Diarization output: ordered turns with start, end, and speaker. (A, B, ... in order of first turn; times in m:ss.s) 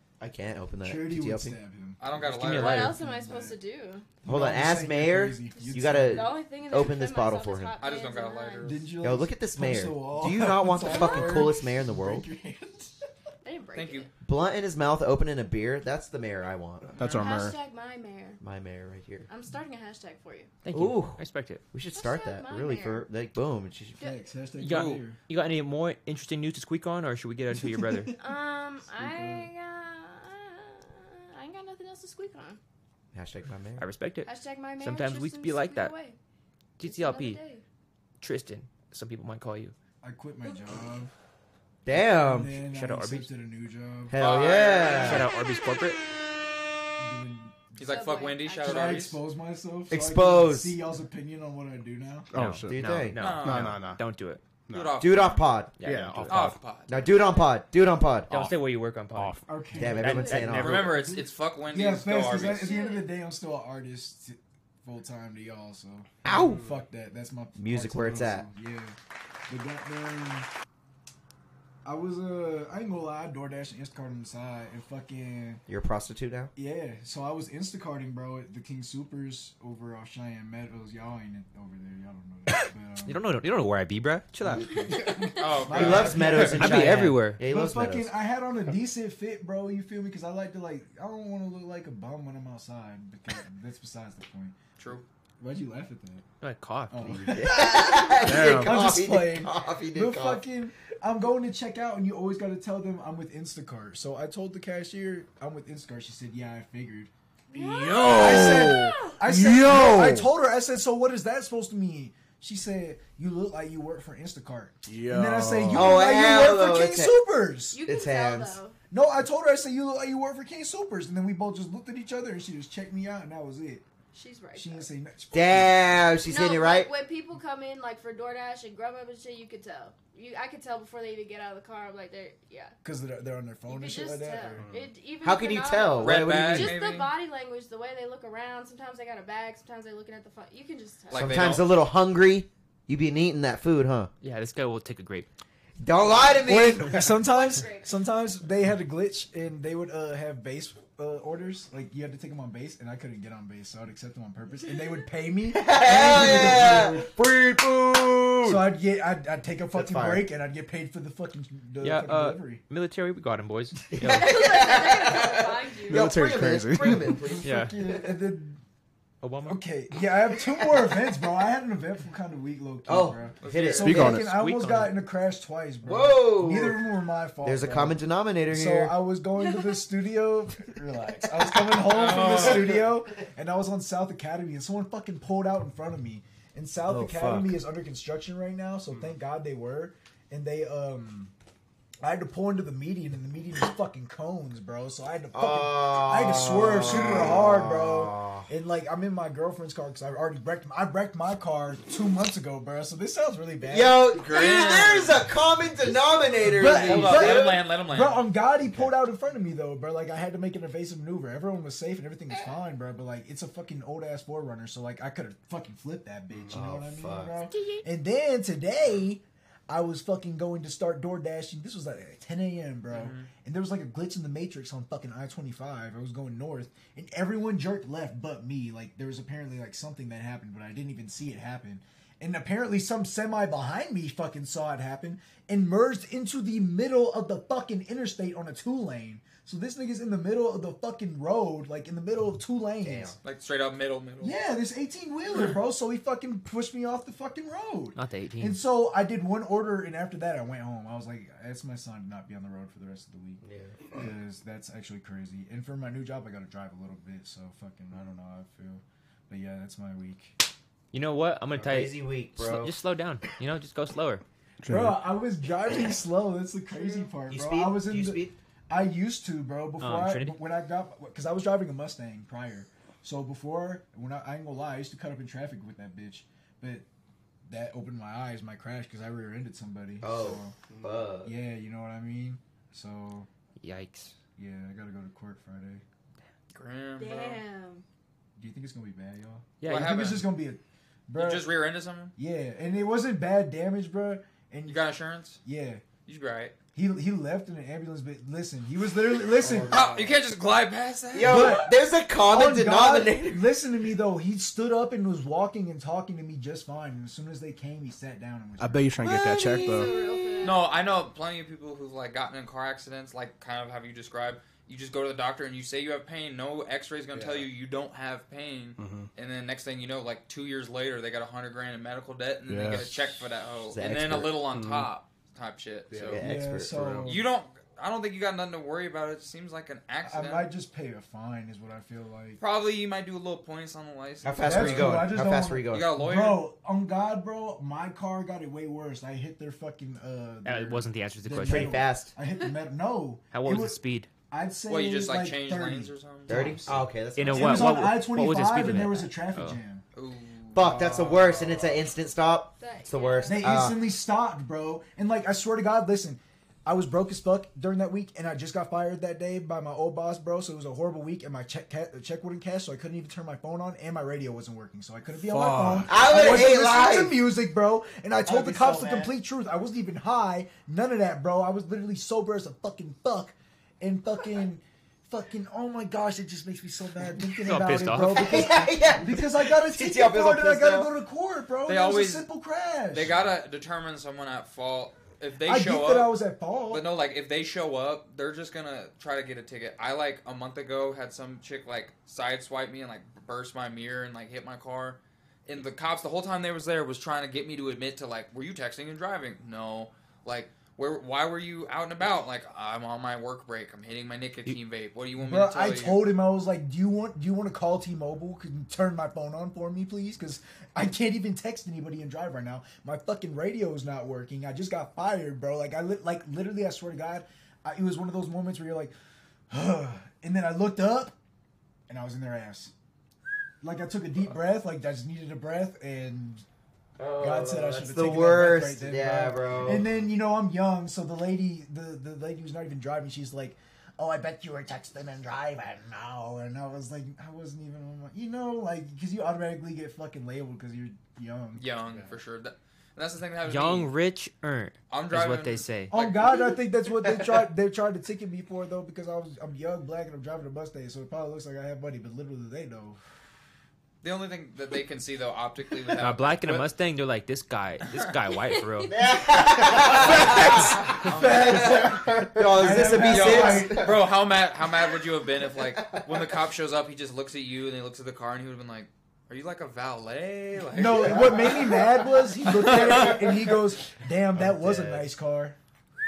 0:00.2-0:01.6 A
0:00.8-0:03.6 B
0:02.0-0:02.9 C
0:02.2-0:03.0 D
0:02.5-0:04.1 E
0:04.2-0:06.4 B
0:04.2-0:07.8 A
0:05.9-0:08.8 E
0:07.8-0:08.9 C
0:08.6-0:13.1 B
0:09.0-0:12.3 A
0:10.9-0:11.5 E
0:13.4-0:14.1 E
0:13.8-0:14.1 C
0:14.2-0:17.0 A
0:17.0-0:17.6 F
0:17.0-0:18.4 E
0:18.4-0:19.3 A
0:19.3-0:20.5 E
0:20.6-0:21.6 D
0:20.7-0:21.2 A
0:21.7-0:24.0 A
0:21.9-0:23.1 E
0:24.0-0:25.2 B
0:24.6-0:28.1 D
0:24.7-0:25.0 C
0:27.5-0:28.2 B
0:28.2-0:32.6 E
0:28.9-0:29.5 B
0:33.1-0:33.9 A
0:33.8-0:35.9 D
0:34.2-0:36.2 E
0:36.8-0:37.4 D
0:36.8-0:37.6 E
0:38.2-0:39.7 D
0:40.0-0:41.1 B
0:41.9-0:42.6 A
0:42.1-0:44.2 B
0:42.6-0:43.3 D
0:44.1-0:45.3 A
0:44.2-0:45.3 C
0:44.8-0:46.0 D
0:47.0-0:52.3 B
0:47.8-0:49.2 C
0:47.9-0:49.1 E
0:49.9-0:50.8 A
0:52.3-0:54.0 F
0:52.3-0:54.4 D
0:52.7-0:53.2 A
0:53.2-0:53.9 C
0:54.7-0:55.0 F
0:54.7-0:55.4 C
0:55.0-0:55.8 A
0:55.8-0:56.6 D
0:55.8-0:56.6 F
0:56.3-0:57.0 C
0:56.9-0:58.4 A
0:57.1-0:57.5 E
0:58.3-1:01.2 D
0:59.1-0:59.6 F
0:59.5-1:09.0 B
0:59.8-1:00.9 A
1:00.5-1:02.8 C
1:02.2-1:03.1 E
1:06.2-1:06.6 A
1:07.6-1:08.5 A
1:09.5-1:10.5 B
1:11.8-1:15.6 B
1:15.7-1:16.5 A
1:16.6-1:23.3 B
1:23.0-1:25.4 D
1:24.4-1:34.6 B
1:25.4-1:26.6 C
1:25.7-1:28.1 A
1:26.4-1:27.4 D
1:34.8-1:35.0 C
1:35.4-1:36.2 B
1:36.4-1:37.2 D
1:36.9-1:47.1 B
1:37.1-1:40.4 A
1:38.2-1:38.8 F
1:47.5-1:49.2 E
1:47.5-1:50.3 F
1:48.1-1:57.8 B
1:54.9-1:56.0 F
1:55.7-1:57.2 A
1:57.7-1:58.8 E
1:57.8-1:58.6 A
1:58.9-2:03.8 B
2:04.1-2:04.9 E
2:04.6-2:06.0 B
2:05.3-2:06.9 A
2:06.2-2:12.8 E
2:12.8-2:14.7 B
2:13.7-2:21.5 E
2:14.6-2:14.9 F
2:15.2-2:16.8 A
2:16.0-2:17.1 C
2:21.1-2:21.6 C
2:21.2-2:24.1 A
2:24.2-2:25.3 D
2:25.8-2:27.2 A
2:26.4-2:37.2 B
2:27.2-2:27.9 E
2:35.5-2:38.7 A
2:38.4-2:42.6 B
2:39.7-2:40.3 A
2:41.8-2:44.5 D
2:43.9-2:48.2 A
2:44.1-2:46.1 E
2:45.8-2:47.2 F
2:47.1-2:48.6 B
2:47.4-2:47.9 D
2:49.2-2:49.6 D
2:49.4-2:58.0 B
2:52.9-2:54.1 A
2:53.4-2:54.1 C
2:53.8-2:54.3 F
2:54.1-2:55.0 D
2:55.8-2:56.9 A
2:57.4-2:59.0 A
2:58.5-3:11.3 B
3:01.3-3:02.8 A
3:01.8-3:02.9 C
3:06.8-3:07.6 A
3:12.0-3:24.1 B
3:15.3-3:18.5 A
3:23.6-3:27.7 A
3:24.1-3:25.2 C
3:26.1-4:03.2 B
3:26.6-3:28.2 C
3:28.6-3:28.9 A
3:36.4-3:37.4 A
3:37.5-3:37.9 E
3:42.9-3:43.3 C
4:02.8-4:03.2 A
4:03.2-4:04.4 C
4:04.2-4:20.4 B
4:08.0-4:08.6 D
4:13.4-4:14.0 A
4:20.9-4:24.2 D
4:21.5-4:22.8 A
4:24.6-4:25.0 F
4:24.7-4:36.8 B
4:26.7-4:27.1 E
4:27.3-4:28.4 A
4:29.8-4:30.4 D
4:37.5-4:40.6 B
4:40.0-4:41.3 A
4:41.2-4:43.3 B
4:43.6-4:44.2 D
4:44.4-4:45.8 B
4:46.5-4:47.4 C
4:47.0-4:47.8 E
4:48.4-4:51.6 B
4:49.6-4:50.0 D
4:49.6-4:50.3 C
4:51.2-4:52.1 C
4:52.2-4:54.8 B
4:54.7-4:55.4 C
4:55.4-4:55.8 B
4:56.1-4:56.5 C
4:56.7-5:00.1 B
4:59.4-5:01.6 C
5:01.1-5:03.5 A
5:01.2-5:08.9 B
5:08.6-5:09.9 F
5:09.0-5:10.6 E
5:10.4-5:25.9 C
5:17.1-5:17.5 F
5:18.8-5:19.1 F
5:22.5-5:23.2 F
5:23.7-5:24.4 A
5:24.5-5:24.9 F
5:25.9-5:27.2 F
5:26.0-5:27.0 A
5:26.2-5:27.2 B
5:27.0-5:30.5 C
5:30.0-5:32.4 B
5:32.4-5:35.1 C
5:34.2-5:35.9 A
5:34.4-5:49.8 B
5:35.7-5:36.5 C
5:40.4-5:41.8 D
5:41.4-5:42.1 A
5:43.3-5:44.1 D
5:44.7-5:46.6 C
5:46.3-5:47.8 A
5:47.1-5:49.6 D
5:50.0-5:51.8 C
5:50.5-5:53.8 A
5:52.6-5:53.6 E
5:53.3-6:23.2 B
6:05.2-6:06.0 F
6:05.9-6:07.2 A
6:08.2-6:09.2 A
6:17.4-6:18.7 D
6:18.1-6:20.9 A
6:21.7-6:22.3 C
6:22.9-6:26.1 C
6:25.4-6:26.9 B
6:26.7-6:46.1 C
6:45.2-6:58.9 B
6:59.5-7:01.2 B
7:01.9-7:02.7 B
7:03.6-7:06.4 B
7:07.0-7:09.9 A
7:07.2-7:21.7 B
7:21.6-7:23.9 C
7:21.9-7:22.2 F
7:23.5-7:25.9 D
7:24.9-7:26.4 C
7:25.9-7:33.0 B
7:34.0-7:36.7 C
7:36.0-7:39.0 D
7:38.9-7:44.1 A
7:39.8-7:41.9 C
7:39.8-7:44.1 B
7:42.7-7:51.8 C
7:45.6-7:46.3 A
7:50.7-7:55.6 B
7:52.5-7:53.4 C
7:54.3-7:55.1 F